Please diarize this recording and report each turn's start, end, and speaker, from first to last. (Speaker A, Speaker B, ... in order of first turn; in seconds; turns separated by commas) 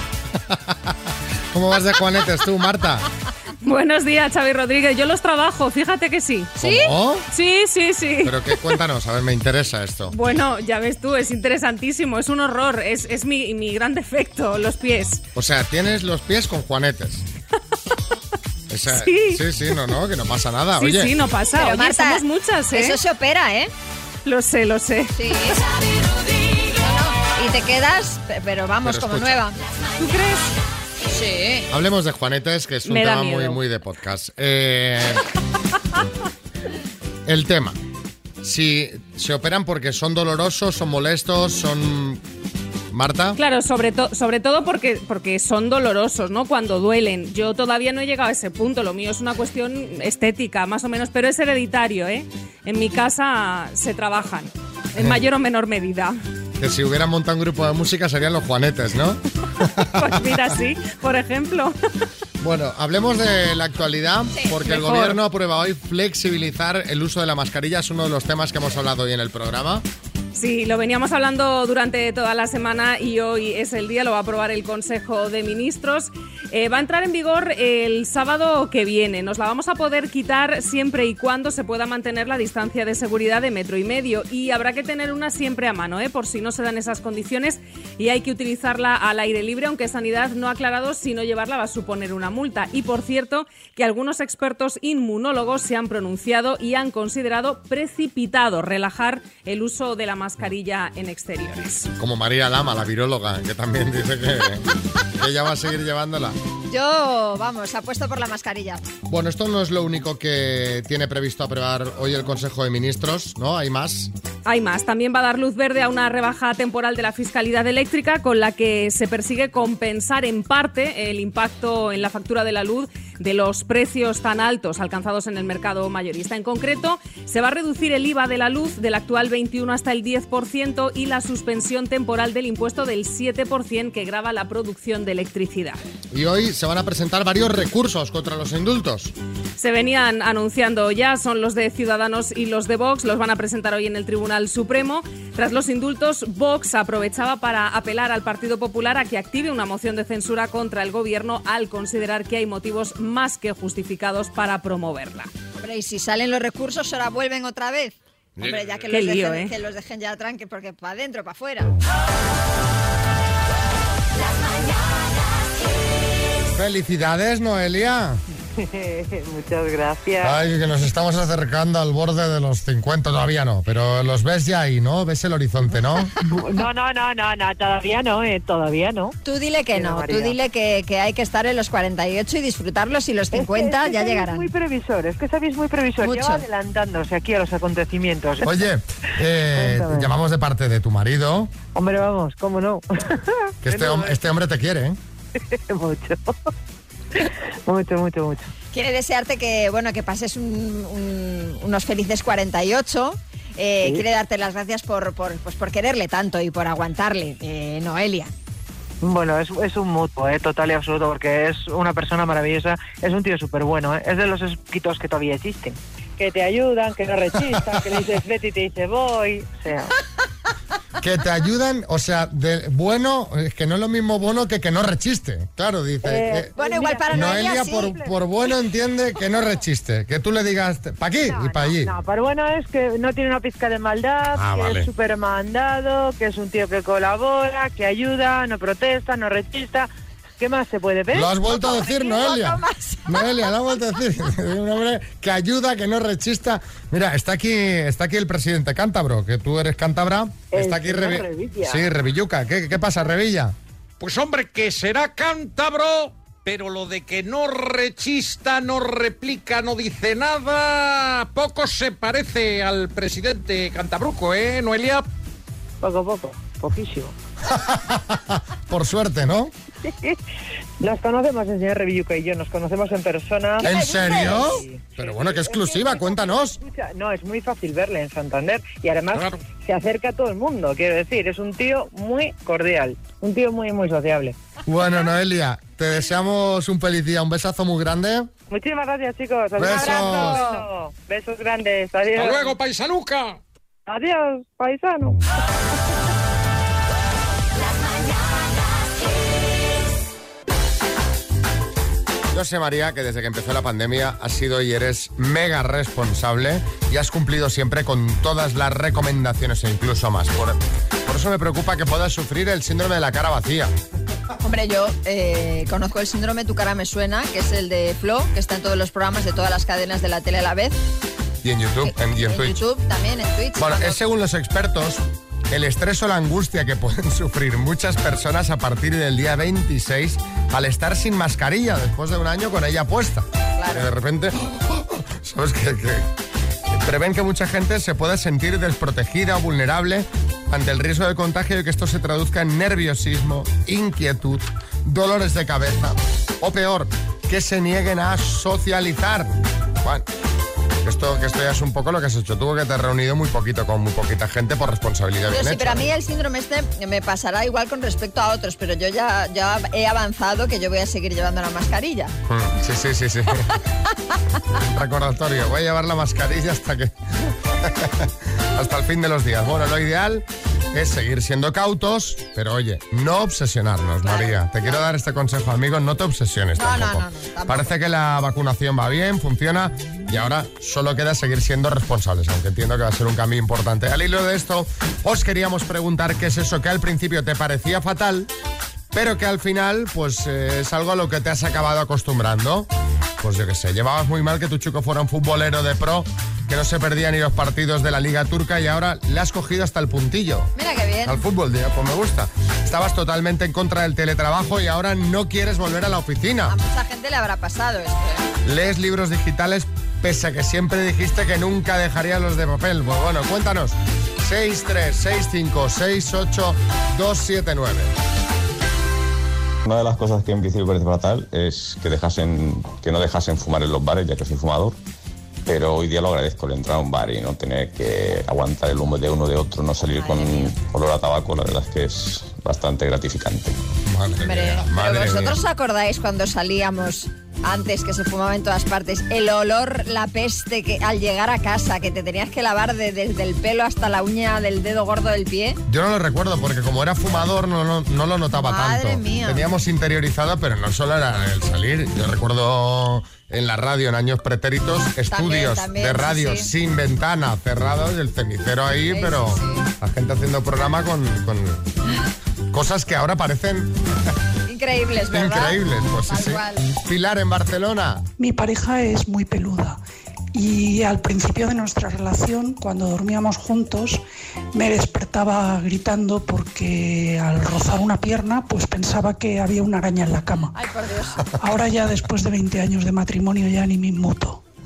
Speaker A: 0.5-0.9, Speaker A: 1.5-3.0, Speaker B: 3.6-6.5, Speaker A: 6.6-7.3, Speaker C: 6.6-6.9, Speaker B: 7.3-8.5, Speaker A: 8.2-10.2, Speaker B: 10.1-15.2, Speaker A: 15.3-17.2, Speaker A: 18.7-21.1, Speaker B: 18.9-19.4, Speaker B: 20.8-23.0, Speaker C: 21.5-23.7, Speaker B: 24.2-25.1, Speaker C: 25.1-25.7, Speaker C: 26.6-29.6, Speaker A: 28.8-29.4, Speaker B: 30.0-30.5, Speaker C: 31.1-31.7, Speaker A: 31.7-35.2, Speaker B: 32.8-33.6, Speaker A: 37.2-37.8, Speaker A: 38.4-42.2, Speaker A: 42.9-43.4, Speaker B: 43.4-56.1, Speaker A: 56.6-60.4, Speaker B: 59.9-61.7, Speaker A: 62.4-69.8, Speaker B: 64.6-65.2, Speaker B: 70.3-101.9, Speaker A: 102.0-104.7, Speaker A: 105.2-106.4, Speaker C: 106.7-108.9, Speaker A: 109.1-114.1, Speaker B: 114.5-135.8, Speaker A: 136.1-139.1, Speaker B: 139.6-155.3, Speaker C: 155.6-161.7, Speaker B: 158.9-159.5, Speaker A: 166.5-168.2, Speaker D: 168.6-170.4, Speaker A: 170.2-176.1, Speaker D: 176.2-179.1, Speaker C: 179.2-184.4, Speaker D: 179.7-180.4, Speaker D: 183.3-188.5, Speaker C: 186.0-186.4, Speaker A: 188.4-191.5, Speaker D: 189.5-190.1, Speaker D: 191.7-194.2, Speaker A: 193.6-195.0, Speaker D: 195.3-196.4, Speaker D: 197.2-198.5, Speaker C: 198.7-208.3, Speaker D: 209.0-219.9, Speaker A: 221.0-226.5, Speaker D: 226.0-228.1, Speaker C: 226.6-227.9, Speaker A: 227.1-231.9, Speaker D: 231.2-241.3, Speaker A: 234.3-234.9, Speaker A: 241.1-253.5, Speaker C: 241.4-243.3, Speaker D: 250.5-251.9, Speaker E: 254.0-265.1, Speaker D: 265.8-267.1, Speaker A: 267.4-269.5, Speaker D: 269.8-270.2, Speaker D: 270.8-284.3, Speaker C: 273.6-274.5, Speaker A: 273.6-276.6, Speaker A: 284.6-288.3, Speaker D: 288.5-292.6, Speaker A: 289.6-290.4, Speaker C: 289.8-290.6, Speaker E: 292.1-293.4, Speaker D: 293.9-295.2, Speaker A: 302.3-313.7, Speaker C: 314.4-320.8, Speaker A: 321.4-322.6, Speaker C: 321.8-324.0, Speaker A: 323.6-336.1, Speaker C: 333.6-333.9, Speaker A: 336.7-350.1, Speaker A: 350.8-355.9, Speaker C: 355.3-362.1, Speaker A: 362.3-363.6, Speaker A: 364.6-388.3, Speaker C: 374.0-374.8, Speaker C: 376.6-377.7, Speaker A: 388.9-400.5, Speaker C: 400.6-401.2, Speaker A: 401.0-406.6, Speaker C: 406.5-408.3, Speaker A: 408.4-417.9, Speaker F: 419.6-424.8, Speaker F: 425.4-433.6, Speaker C: 429.9-430.5, Speaker A: 433.9-435.4, Speaker C: 434.2-445.6, Speaker A: 445.7-461.6, Speaker C: 448.3-449.4, Speaker C: 455.1-456.5, Speaker C: 458.9-459.6, Speaker A: 462.5-463.7, Speaker C: 464.5-466.6, Speaker A: 465.1-468.0, Speaker G: 468.2-469.8, Speaker G: 470.3-474.0, Speaker G: 474.5-480.5, Speaker C: 480.5-481.3, Speaker G: 481.4-484.4